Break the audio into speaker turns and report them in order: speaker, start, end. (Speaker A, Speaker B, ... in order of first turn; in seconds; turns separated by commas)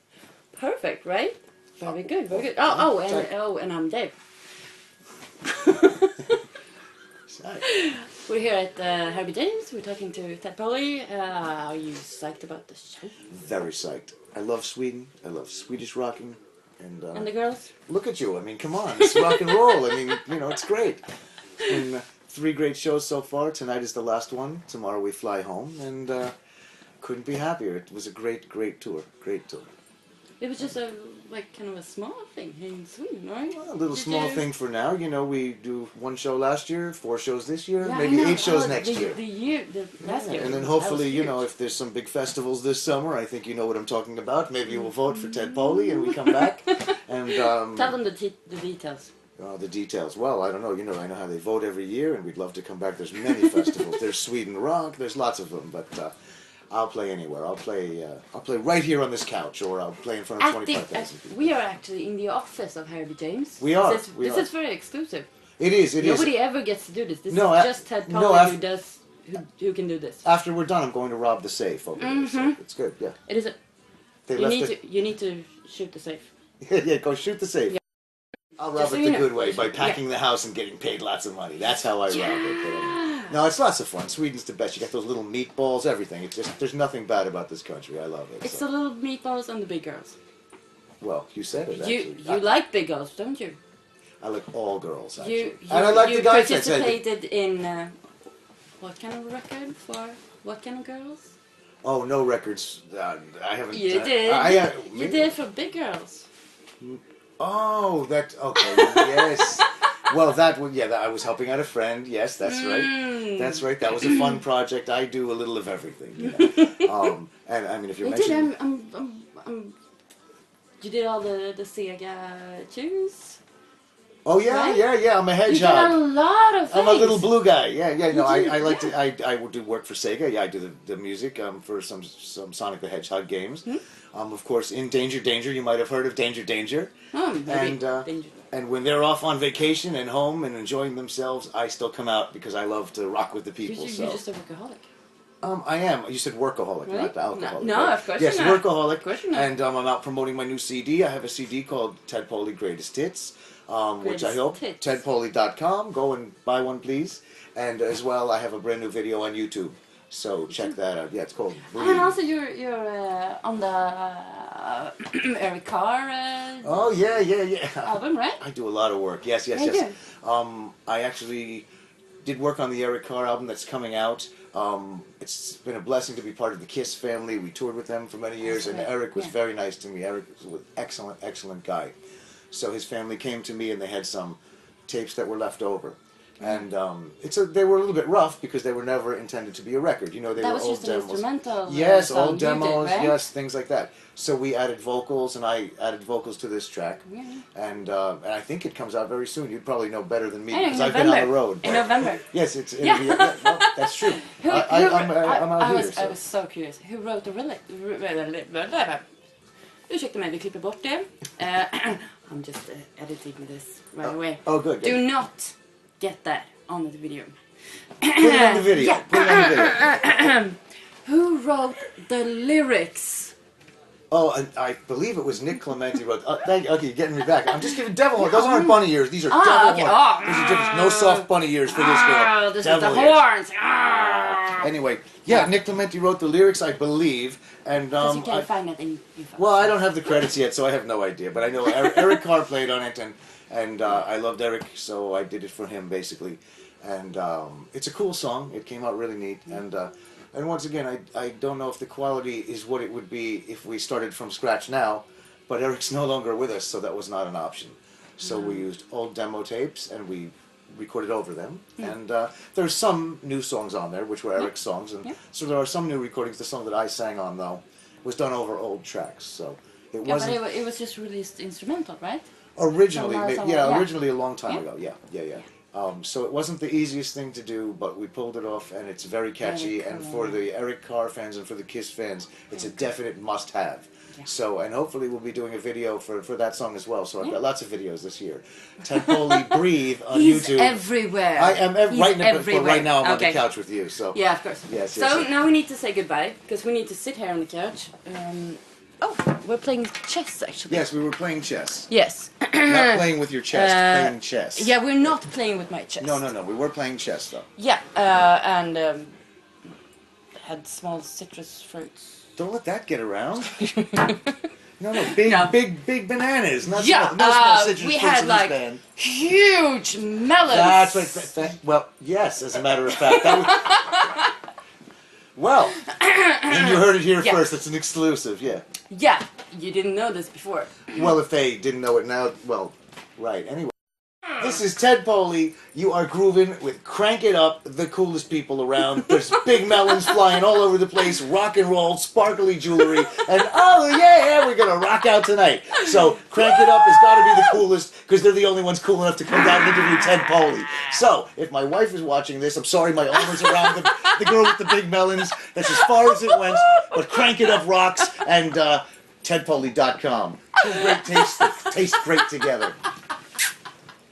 Speaker A: 0.5-4.1, Speaker B: 1.8-3.3, Speaker A: 5.4-6.4, Speaker B: 7.3-7.7, Speaker A: 7.6-13.2, Speaker B: 13.3-17.3, Speaker A: 17.1-17.7, Speaker B: 17.9-21.0, Speaker A: 19.0-20.2, Speaker B: 21.6-26.3, Speaker B: 27.0-29.7, Speaker A: 30.4-34.5, Speaker B: 33.5-39.2, Speaker A: 37.8-41.4, Speaker B: 40.0-48.0, Speaker A: 44.7-49.1, Speaker B: 49.4-56.1, Speaker A: 53.2-53.8, Speaker B: 56.7-61.5, Speaker A: 60.4-65.3, Speaker B: 63.6-64.5, Speaker B: 65.6-66.4, Speaker A: 66.0-70.2, Speaker B: 67.3-68.6, Speaker B: 70.2-73.2, Speaker A: 72.0-72.6, Speaker A: 73.2-73.6, Speaker B: 74.3-74.8, Speaker A: 74.3-76.3, Speaker B: 76.6-77.8, Speaker B: 78.6-88.6, Speaker A: 78.8-80.0, Speaker A: 82.1-83.3, Speaker A: 88.4-90.2, Speaker B: 91.0-92.5, Speaker A: 91.7-93.6, Speaker B: 94.2-97.0, Speaker A: 95.2-98.0, Speaker A: 98.8-101.3, Speaker B: 101.8-105.3, Speaker A: 103.7-106.3, Speaker B: 106.8-118.5, Speaker A: 108.7-109.6, Speaker A: 112.4-114.4, Speaker A: 116.2-116.9, Speaker A: 118.0-119.7, Speaker A: 120.8-123.4, Speaker B: 124.2-126.0, Speaker A: 124.4-124.8, Speaker A: 125.4-127.3, Speaker B: 126.7-136.9, Speaker A: 128.1-128.9, Speaker A: 137.1-138.4, Speaker B: 137.4-144.2, Speaker A: 143.6-144.8, Speaker B: 145.4-162.2, Speaker A: 146.8-149.5, Speaker A: 154.0-155.0, Speaker A: 160.5-160.7, Speaker A: 161.7-166.8, Speaker B: 166.6-171.7, Speaker A: 167.8-168.4, Speaker A: 169.5-169.9, Speaker B: 172.2-181.9, Speaker A: 178.4-179.3, Speaker B: 182.5-206.2, Speaker A: 190.4-193.2, Speaker A: 197.1-197.4, Speaker A: 200.5-202.2, Speaker A: 202.8-209.0, Speaker A: 209.9-217.3, Speaker B: 214.0-215.0, Speaker A: 218.0-223.3, Speaker B: 218.2-219.9, Speaker B: 224.1-233.2, Speaker A: 228.2-234.7, Speaker B: 233.8-238.5, Speaker A: 235.3-235.5, Speaker A: 238.0-239.9, Speaker B: 239.4-270.4, Speaker A: 258.2-258.6, Speaker A: 270.0-272.2, Speaker B: 272.6-290.8, Speaker A: 272.9-273.9, Speaker A: 279.4-280.4, Speaker A: 288.9-293.4, Speaker B: 291.3-295.3, Speaker A: 294.1-300.9, Speaker B: 300.7-301.9, Speaker A: 301.9-306.2, Speaker B: 302.6-305.1, Speaker B: 306.0-307.5, Speaker A: 307.6-309.1, Speaker A: 310.3-312.1, Speaker B: 312.4-313.5, Speaker A: 313.6-314.3, Speaker B: 314.8-318.8, Speaker A: 315.0-315.6, Speaker A: 316.6-321.3, Speaker B: 320.4-323.8, Speaker A: 322.9-324.3, Speaker B: 325.4-325.8, Speaker A: 325.9-327.5, Speaker B: 326.4-328.6, Speaker A: 328.9-330.9, Speaker B: 330.9-333.7, Speaker B: 334.3-362.8, Speaker A: 353.6-354.1, Speaker A: 356.0-357.0, Speaker A: 360.8-361.6